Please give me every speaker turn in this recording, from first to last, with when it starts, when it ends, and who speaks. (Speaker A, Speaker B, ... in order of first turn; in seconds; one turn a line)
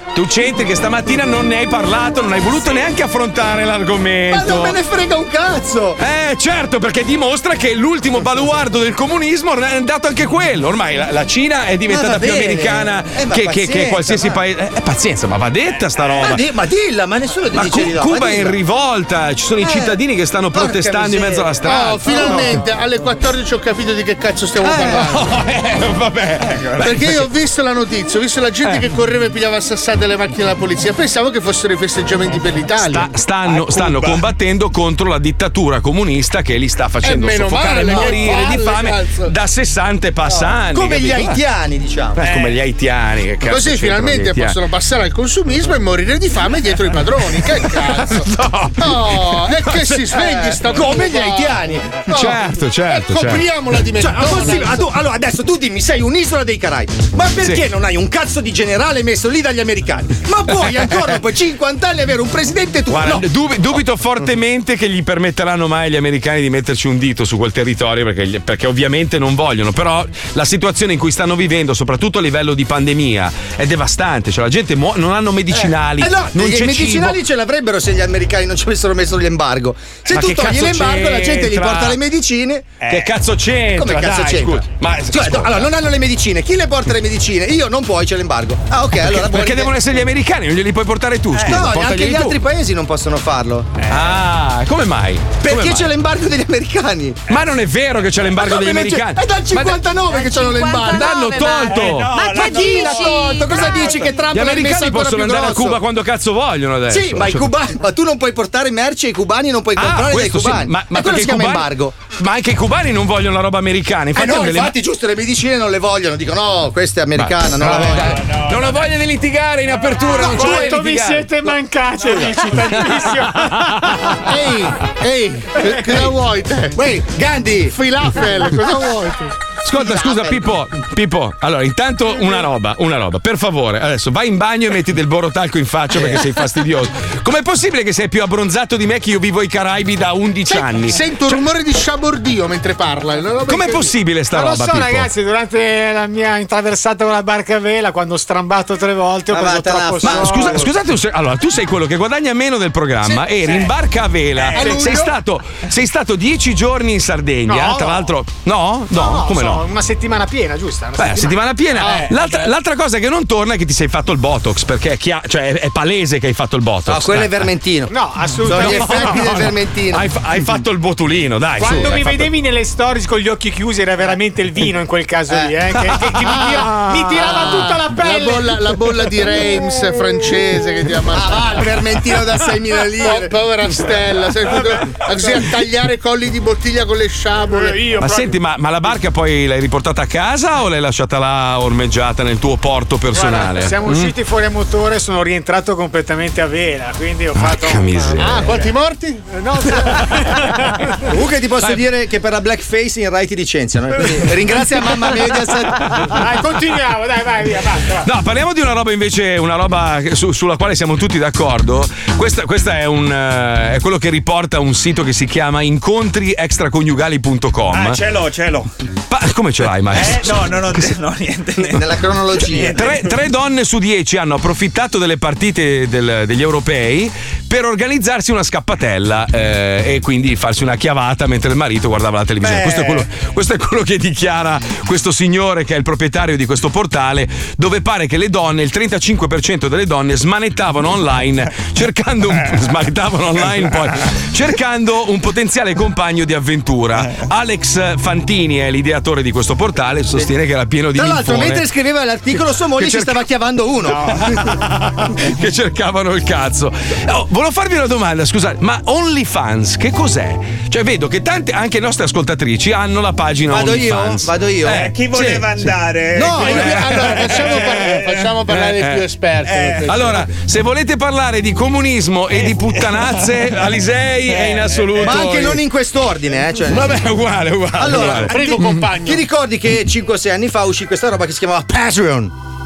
Speaker A: 0.1-4.8
Speaker B: 4.3-6.0
Speaker A: 6.0-16.4
Speaker B: 11.9-14.4
Speaker B: 16.2-18.6
Speaker A: 17.5-22.6
Speaker B: 19.6-20.0
Speaker B: 20.5-22.5
Speaker C: 21.6-25.3
Speaker A: 24.6-27.2
Speaker D: 26.5-26.9
Speaker C: 26.8-33.1
Speaker A: 32.8-41.4
Speaker D: 33.5-34.2
Speaker C: 37.0-39.3
Speaker B: 37.8-38.4
Speaker B: 40.2-42.2
Speaker A: 42.1-44.6
Speaker C: 43.5-48.3
Speaker A: 47.6-50.0
Speaker C: 48.8-54.8
Speaker B: 50.1-52.0
Speaker A: 52.1-53.5
Speaker B: 54.0-63.3
Speaker A: 60.5-61.0
Speaker A: 62.9-77.2
Speaker B: 75.5-82.7
Speaker A: 80.1-82.0
Speaker D: 82.8-83.1
Speaker A: 82.9-85.7
Speaker B: 83.7-89.7
Speaker A: 89.0-92.3
Speaker B: 91.3-93.7
Speaker A: 93.9-95.9
Speaker B: 95.4-97.2
Speaker A: 97.3-99.8
Speaker B: 98.3-105.8
Speaker C: 100.2-101.0
Speaker A: 100.8-102.1
Speaker D: 101.4-104.2
Speaker A: 104.3-107.5
Speaker B: 106.9-111.9
Speaker A: 109.8-114.7
Speaker B: 114.1-118.2
Speaker A: 117.2-121.3
Speaker D: 117.9-118.8
Speaker B: 120.1-120.8
Speaker E: 120.1-124.2
Speaker A: 122.6-124.2
Speaker C: 124.2-126.8
Speaker B: 126.7-127.8
Speaker C: 127.7-129.3
Speaker A: 129.6-141.4
Speaker B: 129.7-130.5
Speaker C: 140.5-143.9
Speaker A: 143.5-145.1
Speaker E: 144.3-150.6
Speaker B: 149.3-150.7
Speaker A: 150.0-159.6
Speaker D: 154.4-154.7
Speaker C: 154.6-155.1
Speaker E: 157.5-158.1
Speaker E: 158.9-162.4
Speaker A: 161.0-167.4
Speaker D: 161.8-162.2
Speaker B: 166.8-170.1
Speaker E: 167.9-169.2
Speaker A: 168.5-172.3
Speaker E: 171.6-178.7
Speaker B: 175.3-175.5
Speaker A: 175.9-177.3
Speaker C: 177.2-181.5
Speaker B: 181.1-183.3
Speaker C: 183.0-187.8
Speaker E: 187.5-188.3
Speaker A: 188.0-194.2
Speaker E: 193.1-198.7
Speaker A: 197.3-198.5
Speaker C: 198.2-199.3
Speaker E: 199.3-201.0
Speaker A: 199.8-200.4
Speaker B: 201.0-206.2
Speaker E: 206.0-208.1
Speaker A: 208.0-218.0
Speaker D: 217.7-218.7
Speaker A: 219.1-220.9
Speaker D: 219.9-223.1
Speaker B: 221.7-222.8
Speaker A: 222.7-251.6
Speaker D: 232.4-233.0
Speaker B: 250.9-254.1
Speaker A: 252.8-253.2
Speaker A: 254.0-265.7
Speaker B: 263.5-264.8
Speaker D: 264.6-268.2
Speaker B: 266.1-266.6
Speaker C: 266.4-270.3
Speaker A: 266.4-269.1
Speaker D: 269.4-269.9
Speaker A: 269.9-275.6
Speaker D: 272.3-273.3
Speaker D: 274.3-275.3
Speaker B: 275.0-277.1
Speaker A: 276.7-278.9
Speaker B: 277.8-282.3
Speaker C: 277.9-279.2